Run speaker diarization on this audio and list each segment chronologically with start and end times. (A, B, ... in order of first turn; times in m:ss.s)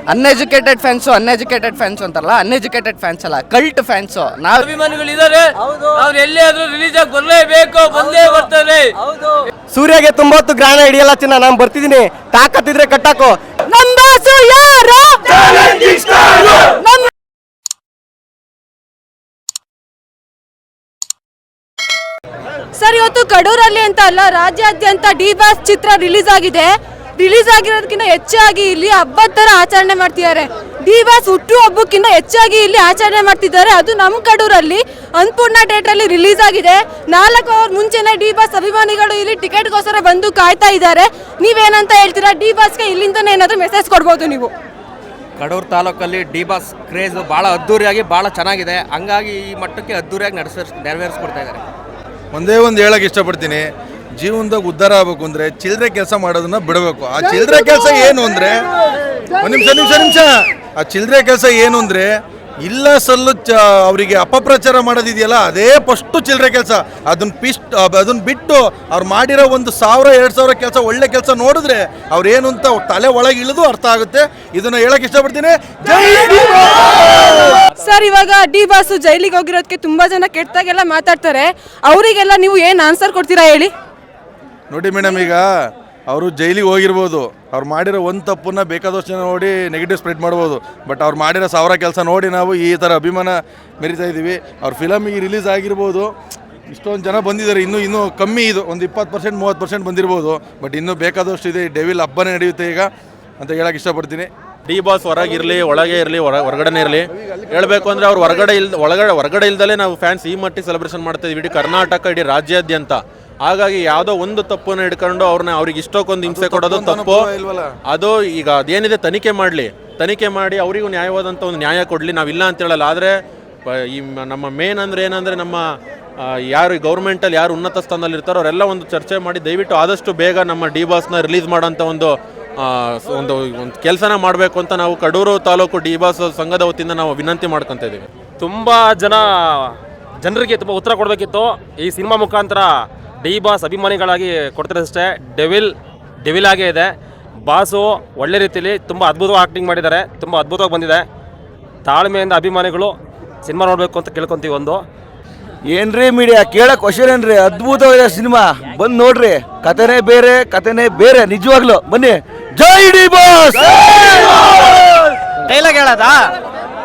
0:00.1-0:04.7 A
0:04.6-0:08.9 B
0:09.7-0:17.1 C
0:22.8-0:44.5 C
0:45.4-0:51.6 D
0:52.3-0:53.7 E
0:54.2-0:58.6 E
0:59.4-1:02.1 E
1:02.7-1:17.3 E
1:17.6-1:23.7 C
1:24.7-1:25.4 E
1:26.1-1:36.1 E
1:36.7-1:42.9 E
1:43.4-1:44.3 E
1:44.7-1:57.3 F
1:56.3-1:57.7 E
1:57.9-2:03.1 F
2:03.7-2:05.6 F
2:06.2-2:18.1 F
2:18.4-2:22.7 G
2:23.2-2:25.7 G
2:26.2-2:26.9 G
2:27.5-2:31.0 G
2:31.9-2:32.9 G
2:33.4-2:34.8 G
2:35.7-2:44.4 H
2:45.5-2:46.1 C